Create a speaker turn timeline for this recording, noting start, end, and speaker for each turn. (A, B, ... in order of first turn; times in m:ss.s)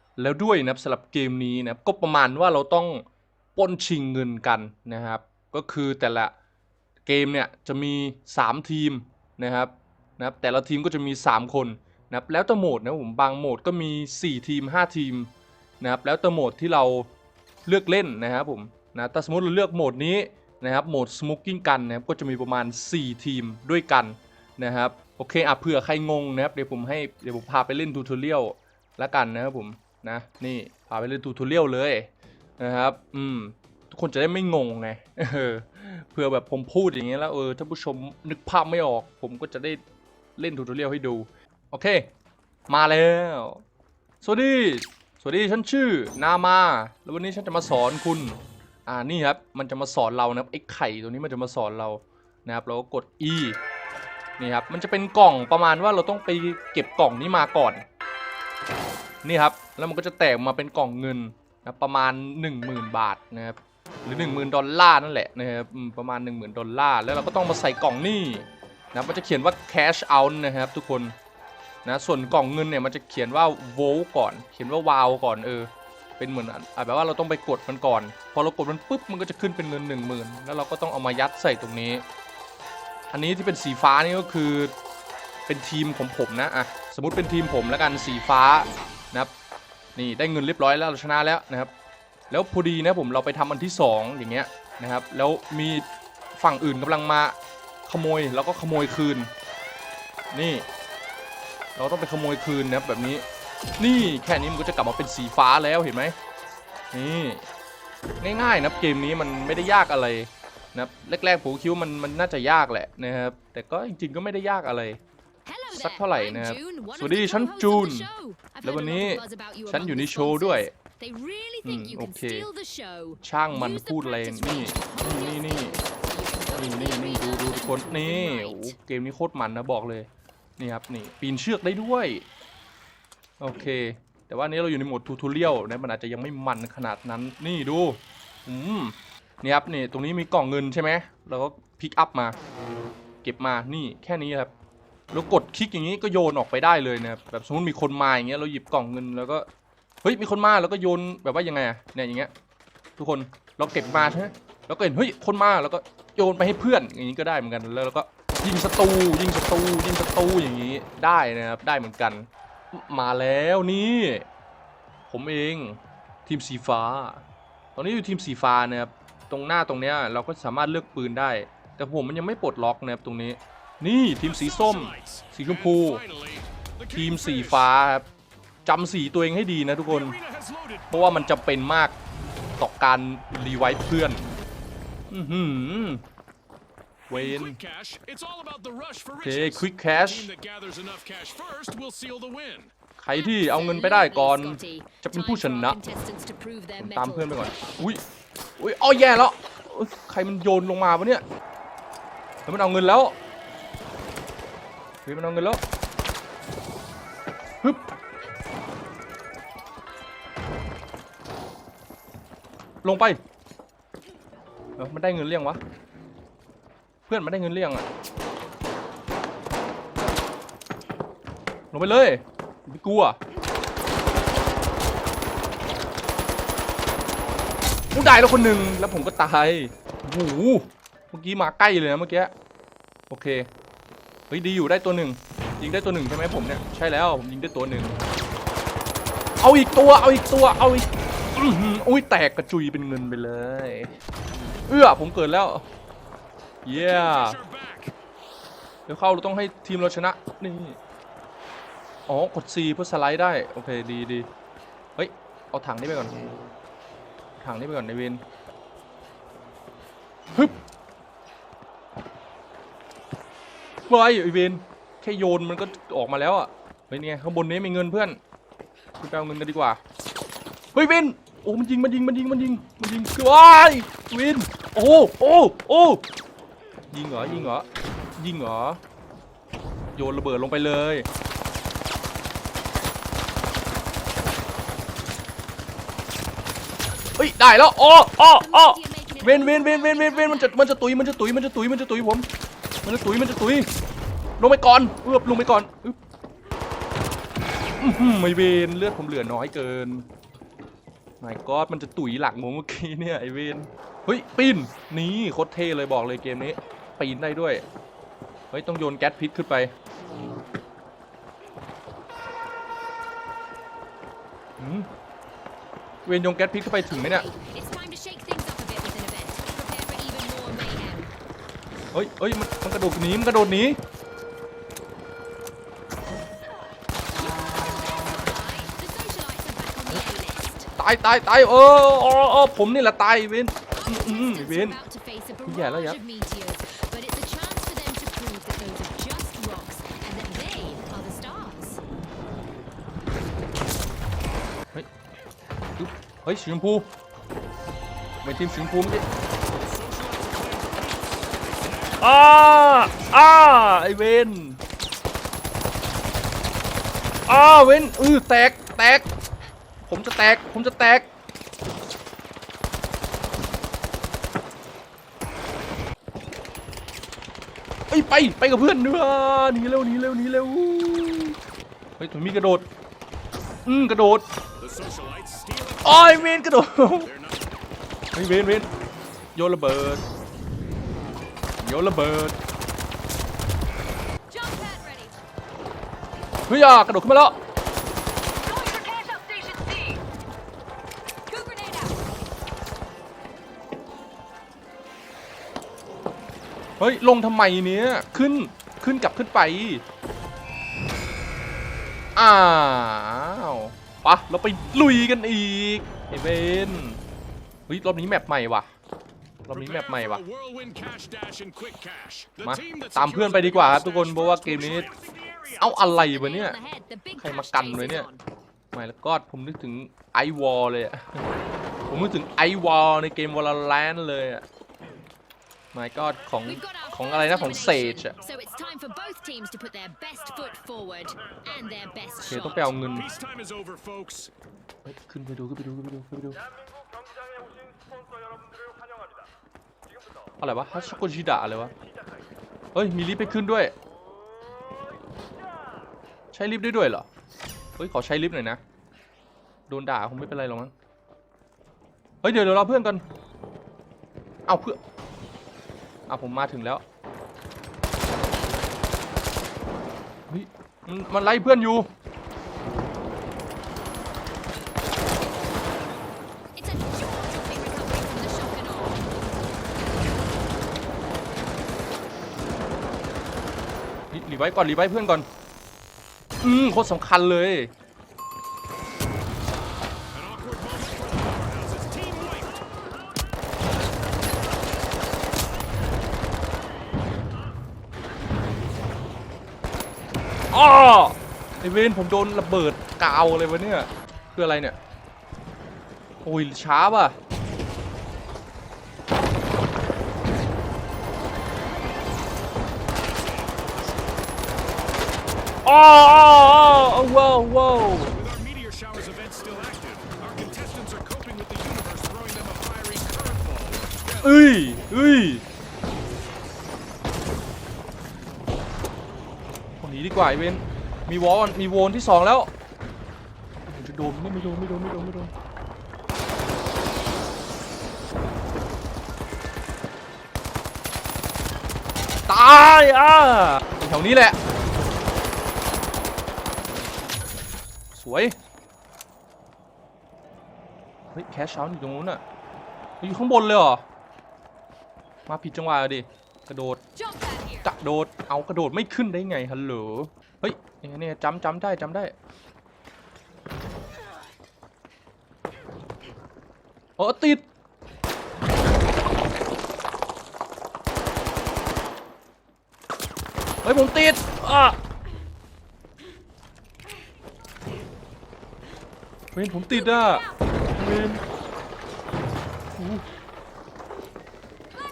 0:00.2-0:03.0 A
0:03.6-0:06.4 A
0:07.0-0:17.1 A
0:17.7-0:39.8 A
0:40.4-0:42.1 A
0:42.7-0:43.6 A
0:44.2-0:53.6 A
0:54.4-0:57.8 A
0:59.2-1:11.2 A
1:11.8-1:22.0 A
1:23.1-1:24.7 A
1:25.5-1:29.3 A
1:30.0-1:31.7 A
1:32.3-1:39.3 A
1:40.3-1:40.7 A
1:41.8-1:43.2 A
1:43.8-1:46.2 A
1:46.9-1:47.5 A
1:48.2-1:55.0 A
1:55.5-2:08.8 B
1:55.7-1:58.1 A
1:58.6-2:00.7 A
2:01.6-2:02.5 A
2:03.2-2:05.8 A
2:06.5-2:10.1 A
2:10.6-2:12.2 A
2:13.4-2:22.4 A
2:23.2-2:24.5 A
2:25.1-2:29.5 A
2:30.0-2:32.3 A
2:33.0-2:44.3 A
2:45.1-2:47.2 A
2:47.8-2:56.0 A
2:54.2-2:57.7 C
2:56.9-2:58.1 A
2:58.7-3:00.2 A
2:59.9-3:00.9 C
3:00.9-3:02.0 A
3:02.6-3:04.3 A
3:05.1-3:06.0 A
3:07.1-3:07.6 A
3:07.1-3:12.7 C
3:09.2-3:10.3 A
3:13.0-3:15.8 A
3:13.1-3:17.5 B
3:16.8-3:18.0 A
3:18.6-3:21.2 A
3:22.5-3:23.2 A
3:25.0-3:25.6 A
3:32.8-3:33.2 A
3:34.8-3:35.6 A
3:37.1-3:37.9 A
3:41.7-3:43.2 A
3:47.9-3:52.3 A
3:53.1-3:53.5 A
3:54.3-3:58.0 A
3:59.4-4:03.9 A
4:04.7-4:05.6 A
4:06.6-4:07.4 A
4:06.7-4:07.9 C
4:08.9-4:10.8 A
4:12.1-4:14.3 A
4:15.0-4:16.2 A
4:17.4-4:18.2 A
4:23.9-4:28.2 A
4:29.0-4:29.8 A
4:30.7-4:36.0 A
4:36.9-4:37.7 A
4:38.2-4:38.8 A
4:40.0-4:41.1 A
4:47.2-4:52.3 A
4:48.2-4:50.6 B
4:52.8-4:53.7 A
4:54.4-4:56.0 A
4:57.8-5:00.1 A
5:01.2-5:07.6 A
5:08.5-5:09.7 A
5:14.6-5:14.9 A
5:16.0-5:17.3 A
5:16.9-5:21.1 B
5:21.9-5:23.8 A
5:27.1-5:30.7 B
5:30.8-5:34.8 A
5:33.8-5:41.8 B
5:35.4-5:36.0 A
5:45.8-5:46.9 A
5:48.2-5:49.0 A
5:49.5-5:52.0 C
5:52.0-5:54.6 A
5:57.3-5:59.1 A
5:59.8-6:01.1 A
6:07.9-6:11.4 A
6:12.0-6:12.7 A
6:13.6-6:14.3 A
6:14.6-6:16.4 C
6:15.8-6:17.1 A
6:17.0-6:17.4 C
6:18.1-6:18.7 A
6:19.4-6:20.0 A
6:21.6-6:22.4 A
6:24.3-6:25.2 B
6:26.5-6:27.4 A
6:28.4-6:30.0 B
6:31.3-6:32.0 B
6:36.8-6:39.8 A
6:42.2-6:47.0 A
6:47.7-6:48.7 A
6:49.5-6:50.2 A
6:49.5-6:55.6 C
6:52.4-6:54.9 A
6:55.6-6:56.6 A
6:55.6-6:58.2 B
6:57.2-6:58.1 A
6:58.7-7:01.2 A
7:01.9-7:04.4 A
7:05.7-7:08.2 A
7:06.4-7:12.8 B
7:12.3-7:13.1 A
7:12.8-7:14.3 C
7:14.8-7:16.4 A
7:20.4-7:21.7 A
7:22.7-7:23.7 A
7:26.3-7:27.1 A
7:27.8-7:28.6 A
7:29.7-7:30.7 A
7:32.2-7:33.0 A
7:34.5-7:34.8 A
7:36.1-7:36.8 A
7:40.3-7:41.9 A
7:46.6-7:49.1 B
7:54.1-7:55.3 A
7:56.4-7:57.7 A
8:00.1-8:02.6 C
8:10.5-8:14.8 A
8:16.2-8:17.2 A
8:23.2-8:23.7 C
8:25.6-8:28.1 A
8:28.1-8:34.4 C
8:34.2-8:35.4 A
8:39.8-8:42.5 A
8:43.7-8:45.3 A
8:52.3-8:54.4 A
8:57.9-8:58.4 A
9:01.1-9:02.2 A
9:03.0-9:03.8 A
9:05.3-9:06.8 A
9:07.0-9:07.7 B
9:07.6-9:12.1 A
9:17.0-9:17.4 A
9:23.6-9:24.8 A
9:29.3-9:31.2 A
9:32.8-9:33.1 A